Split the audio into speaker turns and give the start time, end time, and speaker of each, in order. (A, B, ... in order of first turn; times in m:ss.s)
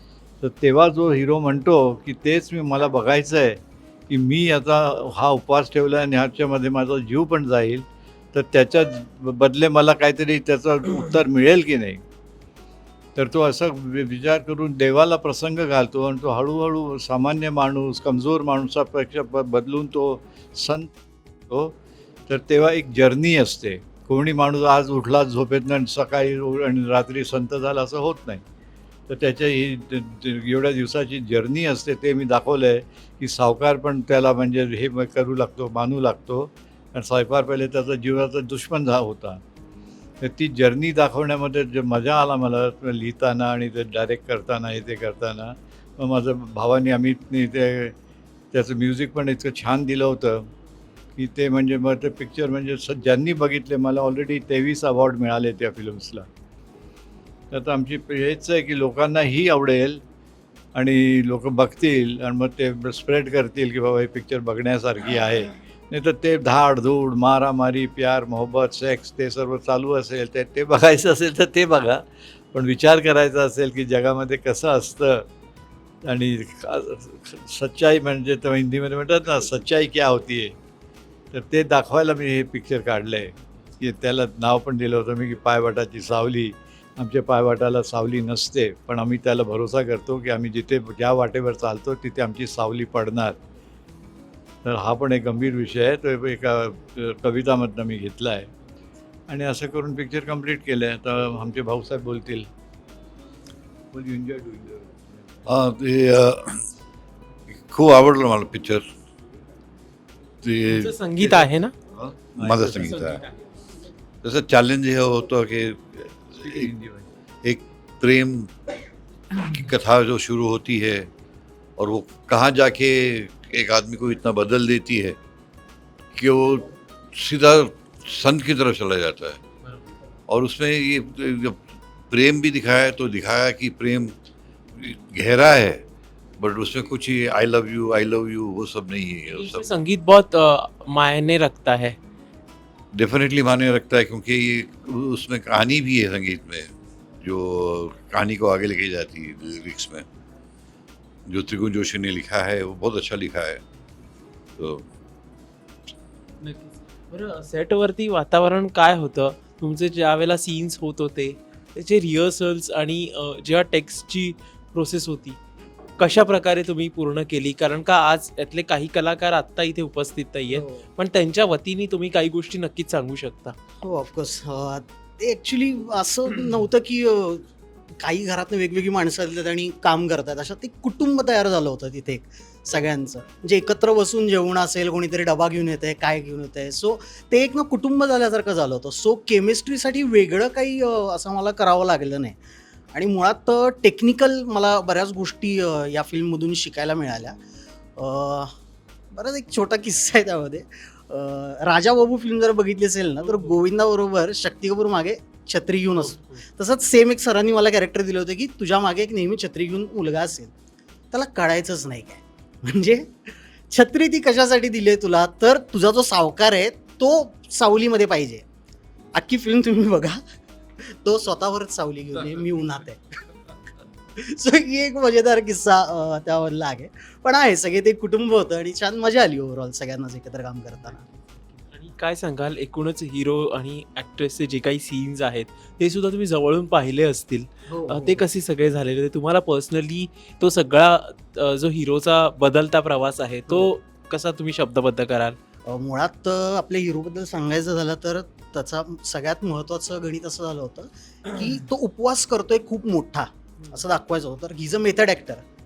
0:00.4-0:12.0 A
0:13.2-0:21.8 A
0:22.3-0:28.4 A
0:29.1-0:39.4 A
0:40.2-0:48.0 A
0:48.5-0:50.5 A
0:51.2-0:56.3 A
0:57.5-1:00.0 A
1:00.8-1:12.0 A
1:12.5-1:15.3 A
1:16.0-1:20.6 A
1:21.3-1:33.4 A
1:34.6-1:38.5 A
1:39.3-1:42.5 A
1:43.9-1:45.0 A
1:45.5-1:46.6 B
1:47.5-1:48.8 B
1:50.4-1:51.4 B
1:50.7-1:51.8 C
1:52.3-1:53.2 B
1:52.4-1:53.1 A
1:52.9-1:53.3 C
1:54.2-1:56.7 B
1:56.4-1:57.1 A
1:57.4-1:58.5 B
1:59.4-2:01.1 B
2:01.8-2:05.2 B
2:06.2-2:09.4 B
2:10.3-2:14.1 B
2:14.8-2:15.8 B
2:16.4-2:19.7 B
2:19.3-2:22.0 C
2:22.9-2:26.7 B
2:27.2-2:30.1 B
2:31.3-2:33.6 B
2:34.6-2:34.8 B
2:36.4-2:45.4 C
2:46.0-2:53.6 C
2:50.5-2:50.8 D
2:53.8-3:12.4 D
3:12.9-3:17.4 D
3:18.0-3:18.5 D
3:19.1-3:30.5 D
3:23.2-3:23.6 C
3:26.0-3:26.4 C
3:31.1-3:38.4 D
3:39.2-3:40.2 D
3:40.8-3:43.2 D
3:44.2-3:51.0 D
3:50.9-4:05.4 C
3:57.7-3:58.2 D
4:05.7-4:15.4 D